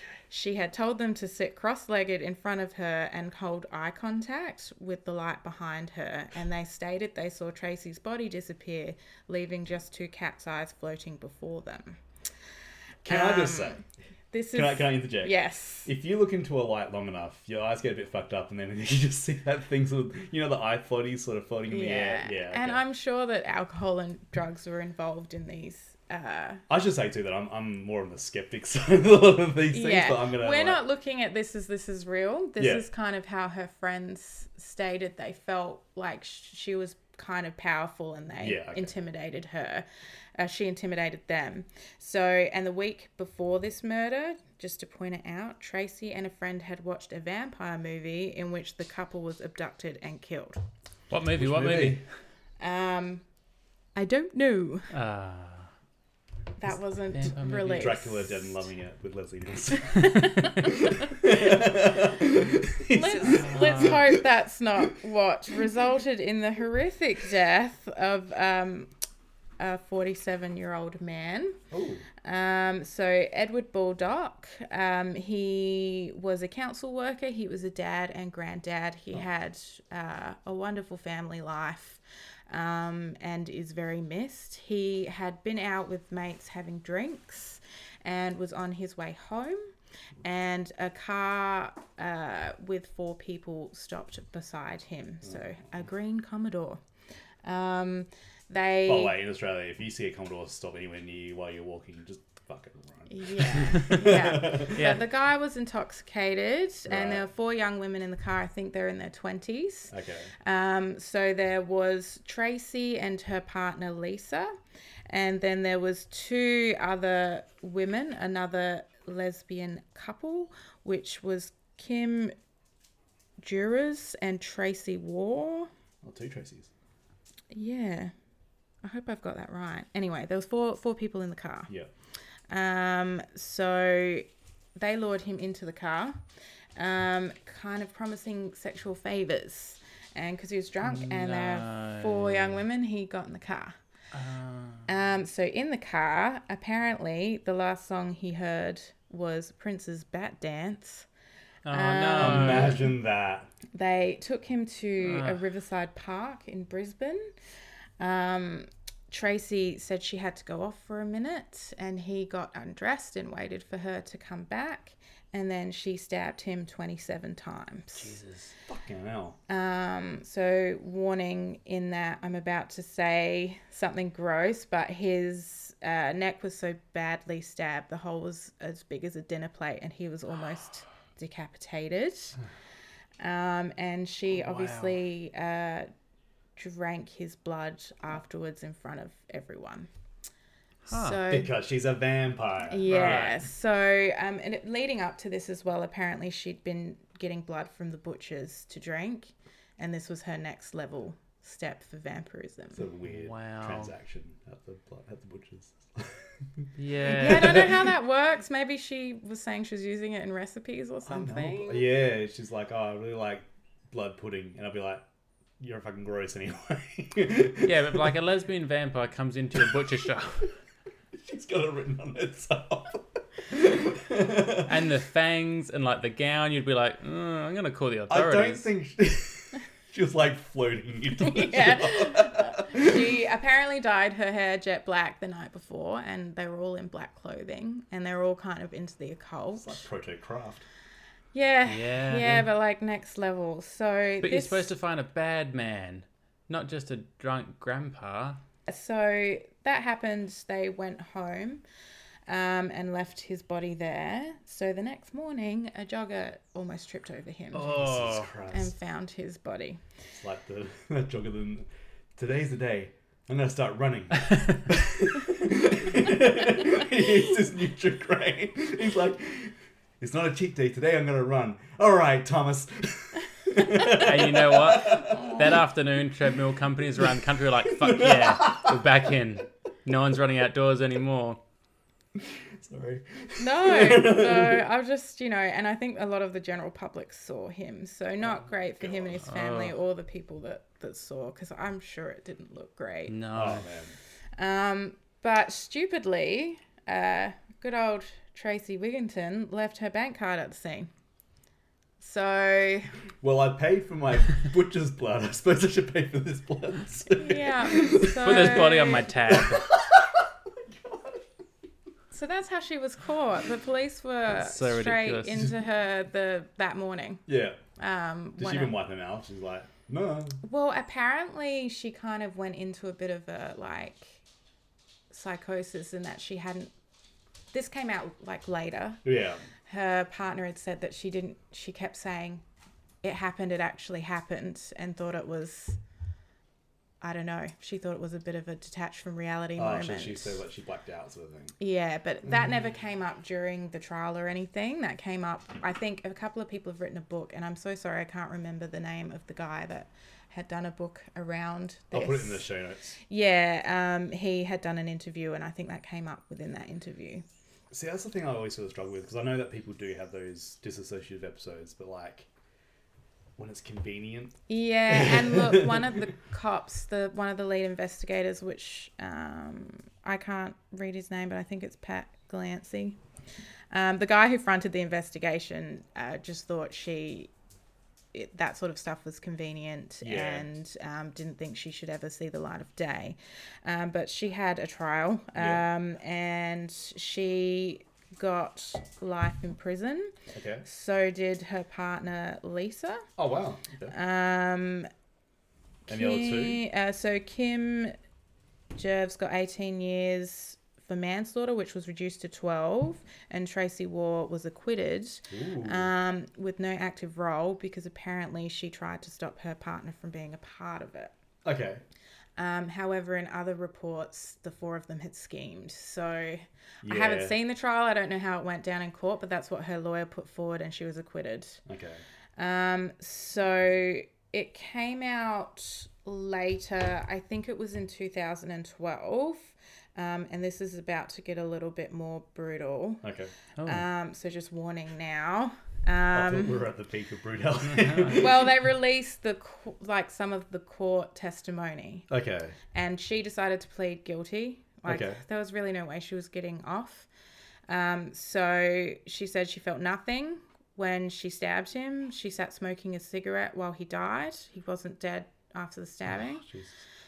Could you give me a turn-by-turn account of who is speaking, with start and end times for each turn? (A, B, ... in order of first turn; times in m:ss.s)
0:00.3-0:12.0 A
0:13.0-0:13.8 B
0:13.1-0:13.8 A
0:14.3-0:15.9 A
0:14.5-0:22.8 B
0:21.7-0:26.6 A
0:26.7-0:30.8 B
0:29.7-0:39.8 A
0:32.6-0:32.8 B
0:38.4-0:38.9 B
0:40.4-0:50.6 A
0:51.1-0:52.0 C
0:51.4-0:52.0 B
0:52.6-0:53.2 A
0:54.0-0:54.9 A
0:54.9-0:55.7 C
0:56.6-0:58.6 A
0:57.1-0:58.0 C
0:57.7-1:04.2 B
0:59.9-1:01.1 A
1:00.1-1:00.6 C
1:02.9-1:08.9 A
1:03.4-1:04.0 C
1:09.6-1:11.6 A
1:11.7-1:12.0 B
1:12.2-1:29.6 A
1:30.2-1:36.8 A
1:37.4-1:39.1 A
1:38.9-1:44.8 B
1:43.1-1:54.5 A
1:43.6-1:45.0 C
1:46.9-1:47.2 B
1:49.9-1:50.3 B
1:55.1-2:02.3 A
2:03.4-2:05.7 A
2:06.0-2:06.7 B
2:07.5-2:08.1 A
2:08.8-2:11.7 A
2:12.5-2:16.2 A
2:16.8-2:23.8 A
2:20.9-2:22.6 C
2:24.1-2:24.9 C
2:24.9-2:31.1 A
2:31.6-2:32.8 C
2:31.7-2:32.8 A
2:32.2-2:33.5 B
2:33.7-2:37.3 A
2:35.0-2:35.4 C
2:38.0-2:48.1 A
2:47.9-2:48.5 C
2:48.7-2:49.4 B
2:49.5-3:02.4 A
3:03.2-3:05.9 A
3:04.3-3:05.0 C
3:06.6-3:09.9 A
3:10.9-3:11.2 C
3:10.9-3:11.5 A
3:11.3-3:13.2 B
3:12.7-3:22.8 A
3:12.9-3:13.4 C
3:22.8-3:26.6 B
3:23.0-3:23.9 C
3:26.8-3:27.7 C
3:27.0-3:31.9 A
3:27.2-3:27.8 B
3:31.0-3:35.0 B
3:35.6-3:38.1 B
3:37.6-3:40.5 C
3:41.1-3:44.8 B
3:44.7-3:48.7 C
3:48.1-3:53.1 B
3:51.2-3:59.8 A
3:59.6-4:00.7 B
4:01.3-4:04.7 A
4:01.7-4:02.5 C
4:04.2-4:08.4 C
4:08.7-4:11.6 A
4:12.3-4:17.8 A
4:17.5-4:18.3 C
4:17.6-4:18.7 B
4:18.5-4:19.8 A
4:20.1-4:35.4 B
4:24.3-4:24.6 C
4:33.9-4:41.4 C
4:37.7-4:39.1 B
4:42.2-4:44.6 B
4:43.4-4:53.2 A
4:48.2-4:49.2 B
4:49.2-4:49.8 C
4:53.1-4:53.7 C
4:53.3-4:54.0 B
4:54.4-5:00.9 A
5:02.0-5:02.9 A
5:03.2-5:08.7 B
5:07.2-5:09.1 A
5:08.2-5:09.7 C
5:09.3-5:11.2 B
5:12.1-5:17.2 A
5:14.4-5:15.5 C
5:17.3-5:17.6 B
5:17.8-5:18.8 A
5:18.4-5:20.4 B
5:20.4-5:24.2 A
5:25.1-5:26.7 A
5:27.5-5:29.0 A
5:29.0-5:29.4 B
5:29.7-5:32.4 A
5:33.0-5:35.8 A
5:37.0-5:40.4 A
5:39.6-5:41.6 B
5:41.6-5:52.5 A
5:51.9-5:53.0 B
5:53.1-5:57.2 A
5:57.7-6:02.3 B
6:03.4-6:06.0 B
6:04.5-6:13.0 A
6:13.7-6:17.3 A
6:18.1-6:33.1 A
6:20.0-6:20.5 B
6:25.4-6:25.7 B
6:30.3-6:30.7 B
6:33.2-6:34.0 B
6:33.9-6:34.9 A
6:35.9-6:38.0 A
6:35.9-6:36.6 B
6:38.8-6:51.1 A
6:45.3-6:45.9 B
6:51.4-6:51.8 B
6:52.4-7:01.6 A
6:56.8-6:57.4 B
7:01.7-7:02.0 B
7:02.4-7:13.0 A
7:13.0-7:13.3 B
7:13.6-7:13.8 C
7:13.6-7:16.7 A
7:16.1-7:18.5 B
7:17.6-7:18.2 C
7:18.1-7:22.1 A
7:22.1-7:22.6 B
7:22.7-7:27.1 A
7:24.9-7:25.2 B
7:27.7-7:36.4 A
7:36.1-7:36.8 B